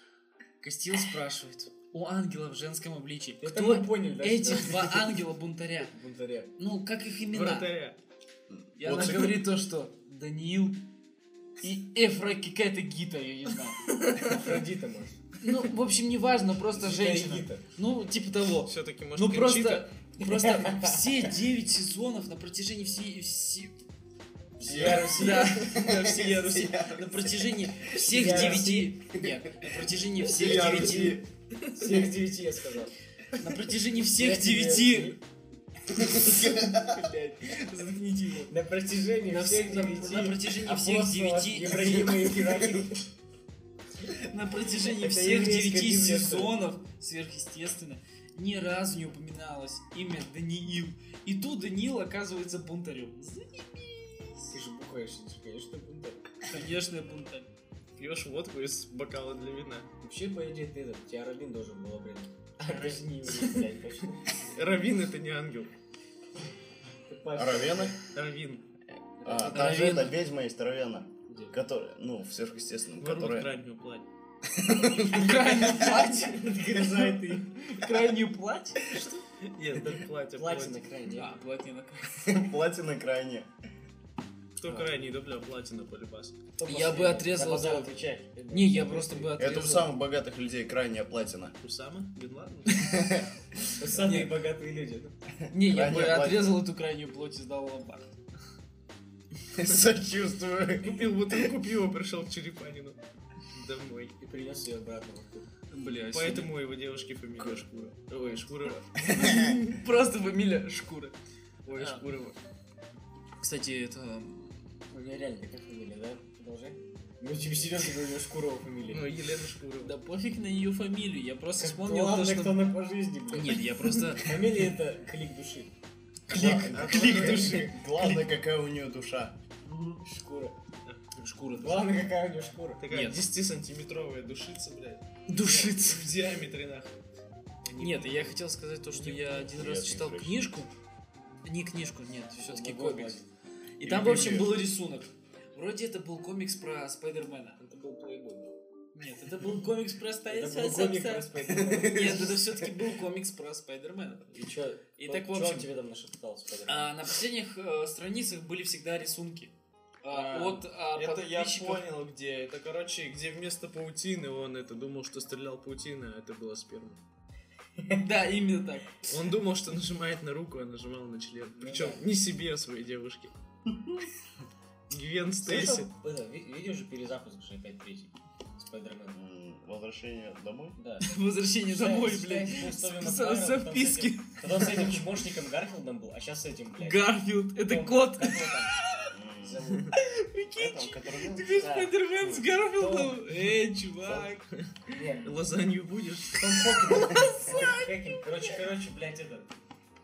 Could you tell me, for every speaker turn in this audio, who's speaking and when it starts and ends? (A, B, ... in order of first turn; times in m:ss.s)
0:00.6-0:05.9 A
0:03.4-0:05.2 B
0:05.9-0:06.5 B
0:06.6-0:07.7 A
0:07.3-0:08.0 C
0:08.5-0:09.5 D
0:08.8-0:10.8 A
0:11.6-0:13.9 A
0:14.3-0:15.2 B
0:15.4-0:23.8 A
0:16.7-0:17.6 B
0:18.6-0:19.9 C
0:20.2-0:21.0 B
0:24.6-0:25.6 B
0:24.6-0:31.2 D
0:24.8-0:31.2 A
0:28.0-0:29.0 B
0:30.4-0:31.2 B
0:31.7-0:32.9 B
0:33.4-0:35.2 A
0:34.2-0:35.2 B
0:35.9-0:38.5 A
0:36.0-0:37.0 D
0:38.5-0:43.0 B
0:39.3-0:42.4 A
0:44.1-0:54.5 A
0:44.9-0:46.5 B
0:54.5-0:56.2 B
0:56.5-0:57.5 A
0:58.0-0:59.9 C
1:00.0-1:04.2 B
1:04.4-1:05.7 C
1:07.1-1:08.0 B
1:07.3-1:08.0 D
1:08.1-1:08.6 C
1:09.2-1:09.7 B
1:09.2-1:13.5 D
1:09.3-1:10.2 A
1:11.3-1:11.6 B
1:13.0-1:14.1 C
1:14.5-1:17.3 D
1:15.1-1:16.5 A
1:15.4-1:17.6 B
1:17.6-1:19.0 A
1:19.4-1:20.9 C
1:20.3-1:21.3 B
1:21.1-1:22.3 A
1:22.2-1:23.5 D
1:24.6-1:26.4 C
1:24.6-1:24.9 B
1:26.6-1:29.4 B
1:26.6-1:28.0 A
1:28.5-1:30.0 A
1:29.4-1:31.6 D
1:31.6-1:32.9 C
1:32.9-1:33.2 D
1:33.8-1:35.2 B
1:34.0-1:34.3 A
1:35.5-1:36.6 D
1:35.5-1:38.1 A
1:39.5-1:41.4 D
1:40.8-1:43.0 C
1:43.5-1:44.2 C
1:44.2-1:45.5 B
1:45.7-1:46.5 A
1:46.1-1:49.0 C
1:49.0-1:51.2 A
1:49.1-1:49.5 D
1:51.6-1:52.4 C
1:51.8-1:52.0 A
1:53.4-1:54.8 A
1:54.9-1:59.1 B
1:58.9-2:00.0 C
1:59.8-2:02.7 A
2:01.6-2:03.6 B
2:03.3-2:04.3 A
2:04.2-2:05.7 B
2:06.3-2:08.2 A
2:06.3-2:09.4 D
2:06.3-2:07.4 B
2:06.4-2:07.7 C
2:09.7-2:10.0 A
2:10.0-2:10.6 B
2:10.8-2:11.2 C
2:11.2-2:12.0 A
2:11.6-2:12.8 B
2:12.8-2:17.0 C
2:12.9-2:13.2 A
2:15.3-2:16.1 A
2:17.7-2:18.3 C
2:17.8-2:20.7 A
2:19.3-2:20.6 D
2:21.4-2:23.2 A
2:22.4-2:23.2 B
2:23.8-2:34.3 A
2:23.8-2:24.6 D
2:30.3-2:32.4 B
2:31.6-2:32.1 D
2:34.3-2:36.9 B
2:35.0-2:35.7 A
2:36.7-2:41.9 A
2:40.1-2:47.0 C
2:47.9-2:49.1 A
2:49.1-2:53.3 C
2:51.6-2:52.0 B
2:54.9-2:55.9 C
2:55.4-2:59.2 B
2:59.1-3:00.8 D
3:00.8-3:01.1 B
3:01.0-3:04.8 A
3:01.7-3:07.0 B
3:06.8-3:09.1 A
3:07.6-3:08.8 B
3:09.1-3:09.8 D
3:09.4-3:09.9 B
3:10.0-3:14.4 A
3:10.6-3:11.7 D
3:11.6-3:13.2 B
3:14.5-3:16.6 C
3:14.9-3:15.4 B
3:16.4-3:19.5 B
3:16.9-3:17.9 A